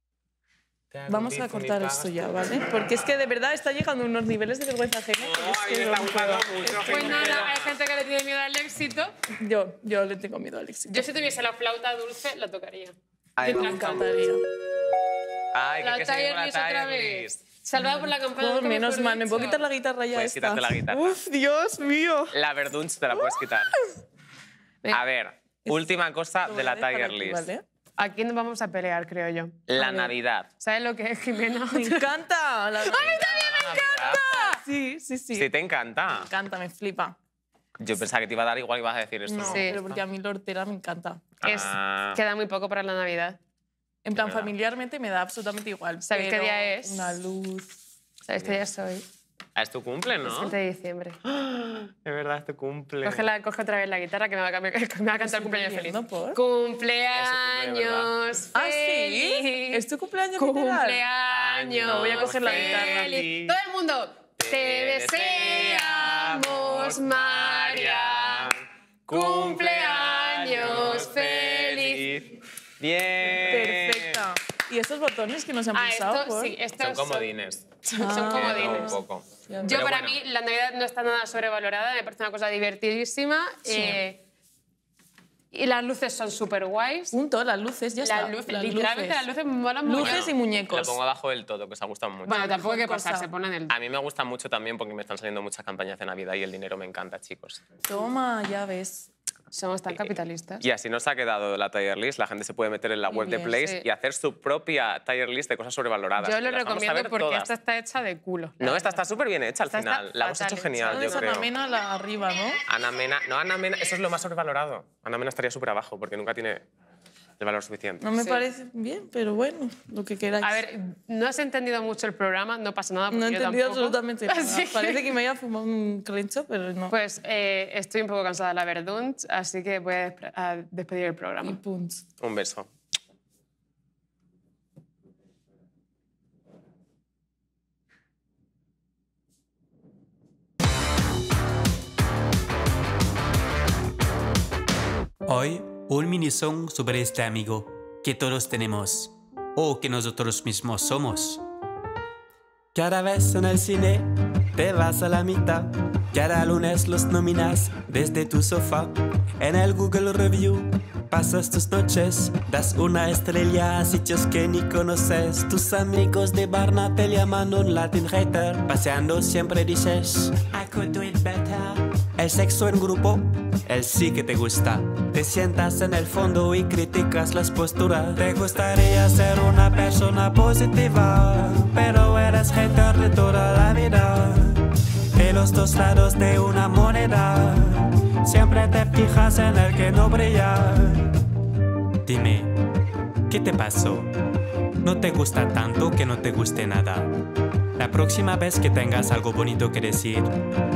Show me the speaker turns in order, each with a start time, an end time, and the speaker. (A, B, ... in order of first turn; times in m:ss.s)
0:00.9-0:03.0 A
0:01.1-0:07.3 B
0:05.2-0:07.7 A
0:06.8-0:09.1 C
0:09.4-0:11.1 B
0:10.9-0:12.9 C
0:13.4-0:14.1 A
0:13.4-0:14.4 B
0:15.5-0:17.4 A
0:15.8-0:19.6 C
0:17.8-0:22.2 B
0:20.1-0:21.2 A
0:22.3-0:23.7 A
0:24.9-0:27.5 A
0:26.4-0:27.6 B
0:28.0-0:29.7 C
0:29.7-0:30.5 A
0:29.8-0:30.1 B
0:30.6-0:32.0 C
0:31.7-0:35.5 B
0:32.8-0:34.6 C
0:32.9-0:34.2 A
0:35.3-0:36.3 A
0:36.0-0:37.2 B
0:37.8-0:40.0 A
0:39.3-0:41.3 B
0:39.4-0:39.8 C
0:41.4-0:42.2 A
0:41.4-0:43.4 C
0:44.0-0:47.7 B
0:44.2-0:44.5 A
0:46.0-0:47.2 C
0:48.3-0:49.0 C
0:49.6-0:50.5 A
0:50.2-0:51.2 C
0:51.2-0:53.3 A
0:53.0-1:08.5 C
0:55.2-0:56.4 B
0:57.1-0:58.1 A
0:58.5-1:01.0 B
1:01.3-1:03.5 A
1:01.8-1:03.2 B
1:04.4-1:08.5 A
1:09.1-1:14.3 A
1:09.1-1:12.1 C
1:13.4-1:16.5 B
1:15.7-1:17.3 C
1:16.8-1:20.2 A
1:17.8-1:19.0 C
1:18.0-1:19.9 B
1:19.6-1:24.2 C
1:23.7-1:24.0 B
1:25.5-1:27.2 C
1:27.1-1:29.2 B
1:28.0-1:30.3 C
1:29.8-1:31.0 B
1:30.0-1:32.6 A
1:32.3-1:33.7 C
1:32.3-1:33.3 B
1:33.7-1:37.6 A
1:37.8-1:39.1 B
1:39.5-1:40.6 C
1:39.9-1:47.5 A
1:43.1-1:43.8 C
1:46.2-1:49.0 C
1:48.6-1:51.5 A
1:49.7-1:51.3 C
1:50.8-1:52.6 B
1:52.7-1:56.6 A
1:57.4-1:58.1 A
1:58.0-2:00.6 B
1:58.2-1:58.4 C
2:00.4-2:05.1 C
2:03.1-2:06.9 B
2:06.9-2:11.6 C
2:11.4-2:12.0 B
2:12.2-2:12.7 A
2:25.2-2:31.4 D
2:32.7-3:11.1 D
3:12.0-3:12.6 D
3:13.3-3:14.1 D
3:14.8-3:17.1 D
3:17.8-3:20.3 D